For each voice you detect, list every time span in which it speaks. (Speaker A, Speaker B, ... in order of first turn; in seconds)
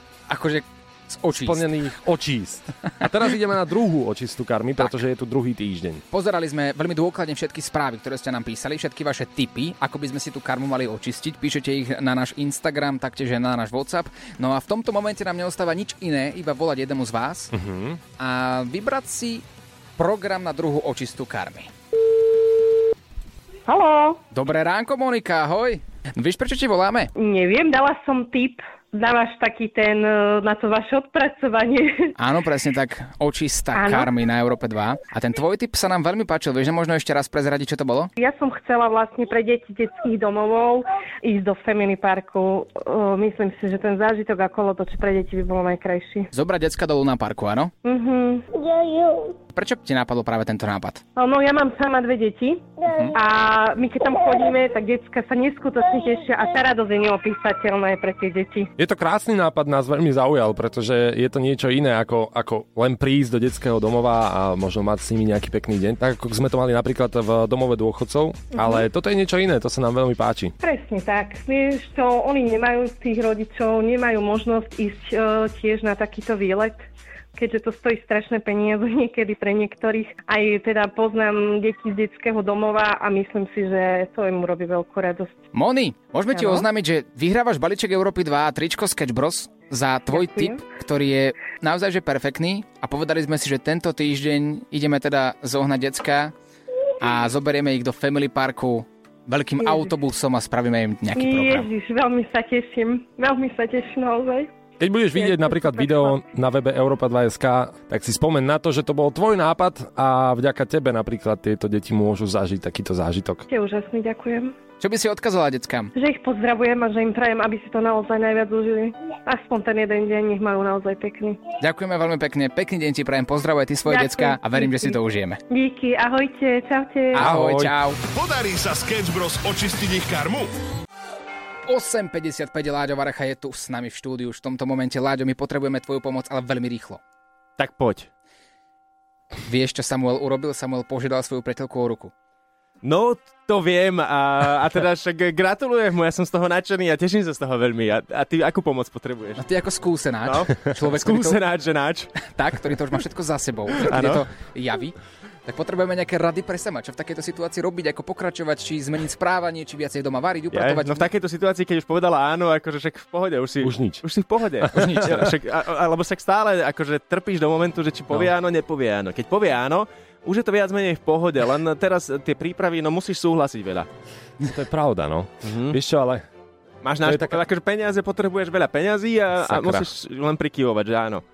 Speaker A: 0.3-1.7, 6.1-17.5, 18.2-19.4, 20.0-21.7, 24.3-27.1, 32.1-38.1, 46.3-47.7, 49.5-51.0, 52.9-53.1, 85.5-96.3, 97.0-101.7, 114.8-115.9, 121.6-125.4, 127.1-128.0, 131.7-137.0, 139.5-142.1, 149.4-151.4, 152.3-161.1, 164.7-165.3
Speaker B: 1.3-6.0, 17.5-18.0, 58.8-70.5, 104.8-113.5, 127.2-127.7, 163.6-164.0, 164.7-165.2, 174.4-176.2, 177.0-177.4, 179.4-179.9
Speaker C: 23.7-24.2, 27.1-32.1, 33.7-34.1, 38.2-46.3, 47.8-48.5, 51.1-58.7, 68.5-68.8, 70.6-85.4, 86.3-86.7, 90.1-90.6, 99.6-99.9, 101.2-104.5, 105.1-106.2, 113.5-114.5, 115.9-121.4, 123.8-125.0, 125.5-127.2
Speaker D: 128.1-130.5
Speaker E: 137.6-138.1, 142.8-149.4, 150.2-152.1, 153.8-154.2, 160.5-173.9, 175.4-175.8, 176.8-181.2